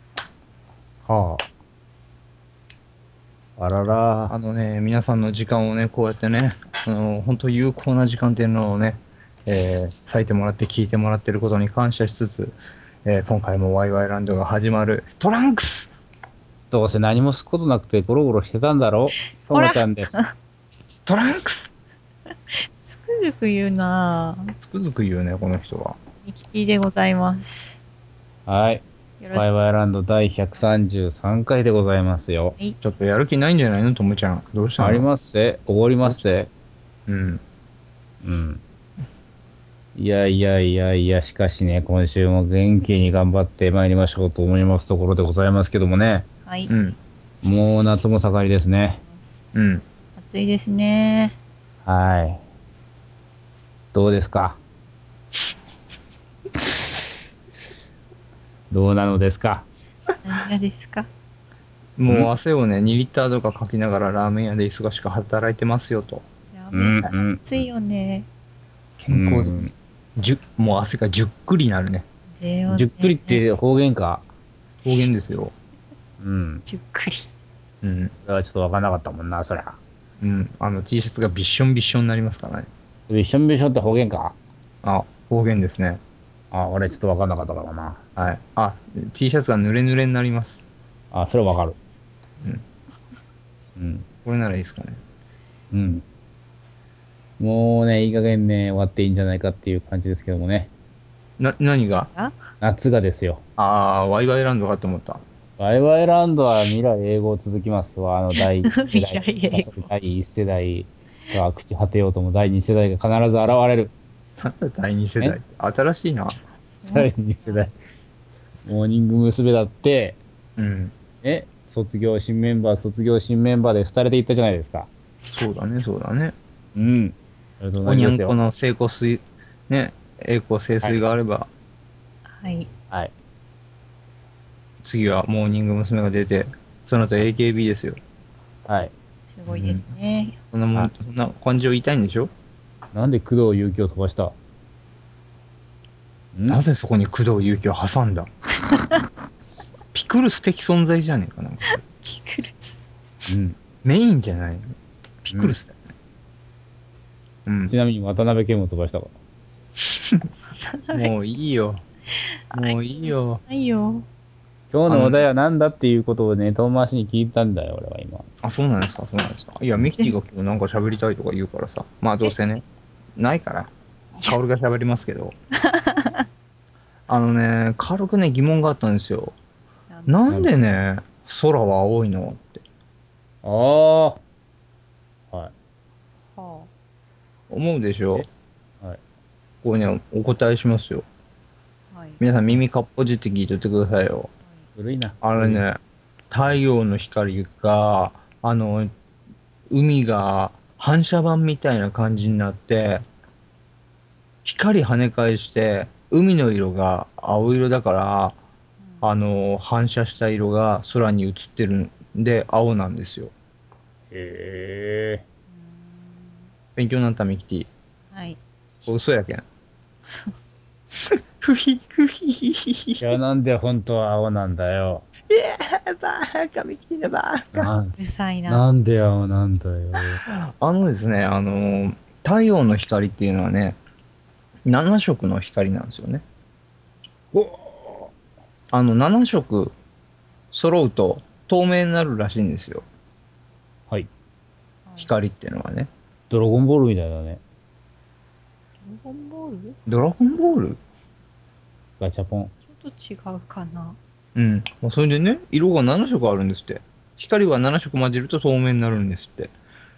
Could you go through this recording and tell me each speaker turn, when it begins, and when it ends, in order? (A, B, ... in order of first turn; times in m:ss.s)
0:01.1-0:01.4 A
0:03.6-0:04.4 A
0:04.3-0:15.9 B
0:16.7-0:20.1 A
0:19.4-0:20.3 C
0:21.1-0:21.7 B
0:22.5-0:24.5 C
0:24.6-0:26.0 B
0:26.2-0:27.8 C
0:28.5-0:32.6 A
0:29.2-0:29.5 C
0:32.8-0:35.1 B
0:34.8-0:36.5 A
0:37.1-0:37.4 B
0:38.2-0:38.6 A
0:40.0-0:46.3 A
0:46.5-0:46.7 C
0:46.7-0:47.0 B
0:47.4-0:49.0 A
0:49.0-0:49.3 C
0:49.5-0:49.8 B
0:50.2-0:51.4 C
0:51.8-0:52.4 A
0:53.9-0:54.6 A
0:58.7-0:59.7 A
1:00.2-1:01.1 C
1:02.0-1:06.2 B
1:06.5-1:08.3 C
1:06.7-1:07.4 A
1:09.0-1:09.6 B
1:09.1-1:09.7 A
1:10.2-1:12.0 B
1:12.4-1:13.4 C
1:12.7-1:14.2 A
1:14.8-1:15.5 B
1:16.2-1:16.6 A
1:16.7-1:17.3 C
1:17.8-1:18.1 B
1:18.3-1:19.8 A
1:20.2-1:22.7 B
1:23.1-1:24.4 A
1:24.8-1:26.0 B
1:26.5-1:28.0 A
1:28.2-1:30.6 B
1:31.1-1:31.8 A
1:33.8-1:34.0 A
1:34.2-1:35.0 B
1:35.7-1:36.0 A
1:37.4-1:40.7 A
1:41.4-1:42.1 B
1:42.6-1:43.4 A
1:43.6-1:45.2 B
1:45.6-1:53.9 A
1:48.3-1:49.9 C
1:54.4-1:56.4 B
1:56.8-1:57.7 C
1:56.9-1:57.7 A
1:58.7-2:00.2 A
2:00.6-2:00.9 B
2:01.2-2:04.9 A
2:05.3-2:06.3 B
2:06.8-2:08.4 A
2:07.8-2:11.5 B
2:10.8-2:11.1 A
2:12.3-2:12.7 C
2:14.8-2:18.0 B
2:18.7-2:18.9 A
2:19.3-2:20.4 C
2:19.5-2:19.9 B
2:20.5-2:22.3 B
2:22.9-2:24.4 A
2:26.3-2:26.6 A
2:26.5-2:28.3 B
2:29.9-2:31.8 B
2:31.7-2:32.8 C
2:33.3-2:33.6 A
2:33.8-2:34.7 B
2:35.2-2:35.8 B
2:37.5-2:37.8 B
2:37.7-2:39.1 A
2:40.9-2:41.8 B
2:42.2-2:44.1 C
2:42.5-2:43.4 B
2:44.7-2:48.2 A
2:44.9-2:45.3 B
2:48.4-2:52.6 B
2:53.2-2:55.3 B
2:55.7-2:56.2 C
2:57.1-2:59.4 B
2:59.9-3:00.2 C
3:00.1-3:02.6 B
3:03.4-3:04.2 A
3:06.4-3:06.7 C
3:07.5-3:08.3 B
3:09.6-3:11.0 B
3:11.9-3:12.2 C
3:12.2-3:14.3 B
3:14.4-3:14.7 C
3:14.8-3:15.6 A
3:15.2-3:15.8 B
3:16.3-3:18.9 B
3:19.7-3:23.0 B
3:24.4-3:28.4 B
3:28.8-3:29.1 C
3:29.0-3:33.3 B
3:34.1-3:35.2 A
3:35.5-3:36.5 C
3:36.8-3:37.7 B
3:38.1-3:38.4 C
3:38.8-3:39.4 B
3:41.4-3:43.1 B
3:43.0-3:45.1 A
3:45.3-3:47.7 B
3:47.5-3:48.0 A
3:48.0-3:48.6 C
3:48.5-3:50.2 A
3:50.3-3:53.8 B
3:54.6-3:56.2 B
3:57.3-3:58.1 A
3:58.7-3:59.7 B
4:00.5-4:02.8 B
4:04.9-4:05.1 C
4:05.0-4:05.9 B
4:06.3-4:07.4 A
4:08.8-4:09.8 C
4:09.9-4:10.8 B
4:12.0-4:12.5 A
4:12.7-4:14.0 C
4:14.4-4:19.5 B